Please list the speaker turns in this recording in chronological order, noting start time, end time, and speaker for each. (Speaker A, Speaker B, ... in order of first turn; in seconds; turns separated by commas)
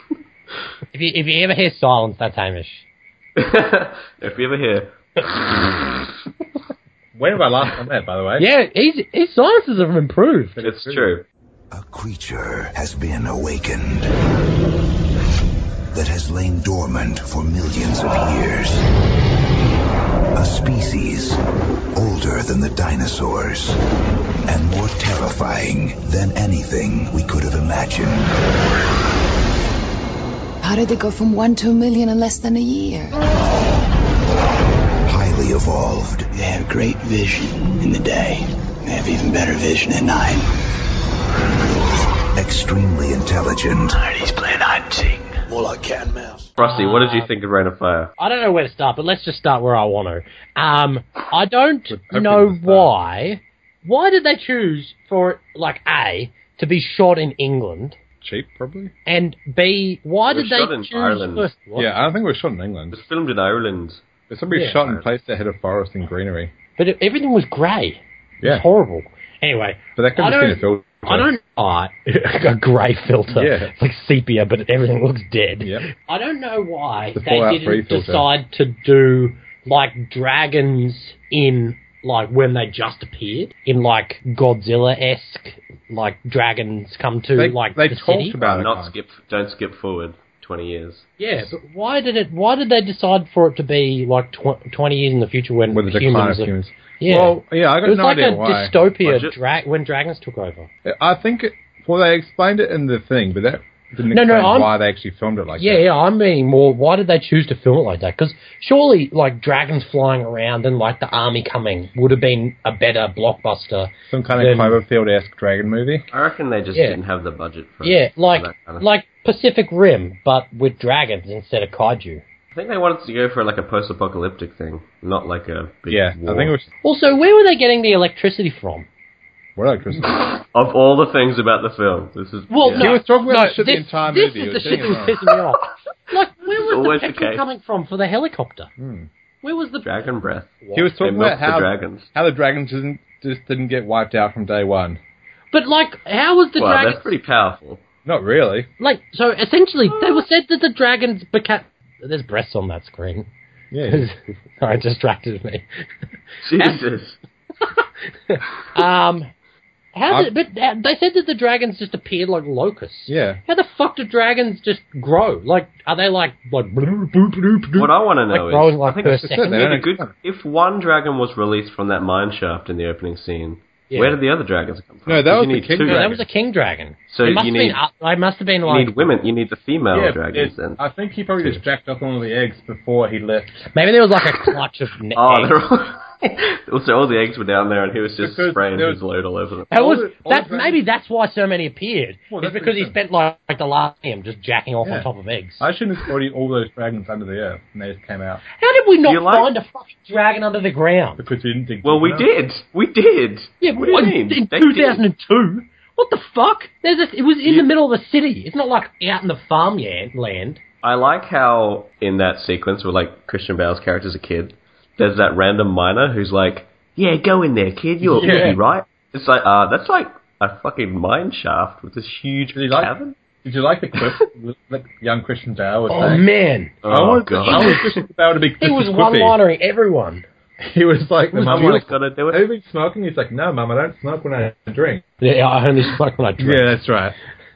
Speaker A: 0.9-2.9, Speaker B: 3.4-5.4, Speaker C: 7.2-8.4, Speaker A: 8.4-10.6, Speaker C: 10.6-11.1, Speaker B: 10.6-11.2, Speaker D: 11.7-14.1, Speaker D: 15.9-18.8, Speaker D: 20.4-21.4, Speaker D: 21.9-23.8, Speaker D: 24.5-28.3, Speaker E: 30.6-33.1, Speaker D: 35.1-36.4, Speaker F: 36.4-40.5, Speaker D: 42.4-44.0, Speaker F: 44.0-46.5, Speaker A: 46.6-47.3, Speaker B: 46.6-48.1, Speaker A: 48.2-58.0, Speaker C: 51.9-52.9, Speaker C: 58.2-58.9, Speaker A: 59.1-61.9, Speaker B: 60.3-61.5, Speaker C: 61.8-63.0, Speaker B: 62.9-64.0, Speaker C: 64.3-66.5, Speaker A: 64.5-64.8, Speaker A: 66.8-88.4, Speaker C: 70.0-71.3, Speaker C: 73.3-73.7, Speaker C: 75.6-75.9, Speaker C: 77.2-78.3, Speaker C: 87.3-88.9, Speaker B: 88.4-91.1, Speaker A: 91.2-100.7, Speaker C: 95.7-98.7, Speaker B: 99.0-99.3, Speaker C: 100.8-105.8, Speaker A: 104.1-104.7, Speaker A: 105.6-114.8, Speaker C: 114.1-116.1, Speaker B: 116.1-118.9, Speaker A: 117.8-122.2, Speaker B: 122.5-126.5, Speaker C: 125.9-126.7, Speaker A: 126.8-128.9, Speaker C: 129.6-130.4, Speaker B: 130.1-132.9, Speaker A: 132.5-138.7, Speaker C: 132.8-135.3, Speaker B: 136.6-137.4, Speaker C: 138.8-139.1, Speaker A: 139.4-139.9, Speaker B: 139.8-142.1, Speaker A: 140.6-140.9, Speaker C: 140.7-145.0, Speaker A: 145.5-147.1, Speaker B: 146.6-147.8, Speaker C: 148.1-148.7, Speaker A: 148.8-153.3, Speaker C: 153.7-154.1, Speaker A: 153.8-155.6, Speaker B: 156.4-157.2, Speaker A: 158.3-159.3, Speaker A: 159.9-169.7, Speaker C: 163.1-163.4, Speaker B: 167.8-176.1, Speaker C: 169.2-170.1, Speaker A: 173.9-174.2, Speaker C: 175.1-176.2, Speaker A: 175.8-179.1, Speaker B: 177.1-177.8, Speaker B: 178.7-180.8, Speaker C: 179.9-183.6, Speaker A: 183.7-185.6, Speaker B: 185.2-189.9, Speaker C: 188.2-189.0, Speaker A: 189.7-195.7, Speaker C: 189.7-190.8, Speaker C: 192.3-193.0, Speaker C: 194.8-195.1, Speaker C: 195.6-198.4, Speaker A: 198.6-201.2, Speaker B: 199.0-199.5, Speaker C: 201.2-202.3, Speaker B: 201.8-205.0, Speaker A: 203.6-210.6, Speaker B: 210.8-223.2, Speaker C: 218.0-218.6, Speaker A: 218.2-218.6, Speaker C: 222.5-226.2, Speaker A: 225.9-226.8, Speaker B: 226.8-228.1, Speaker C: 226.9-229.4, Speaker A: 227.4-227.8, Speaker A: 228.6-230.3, Speaker C: 230.6-235.0, Speaker A: 231.4-231.9, Speaker B: 231.4-232.5, Speaker A: 235.2-236.8, Speaker C: 236.4-237.2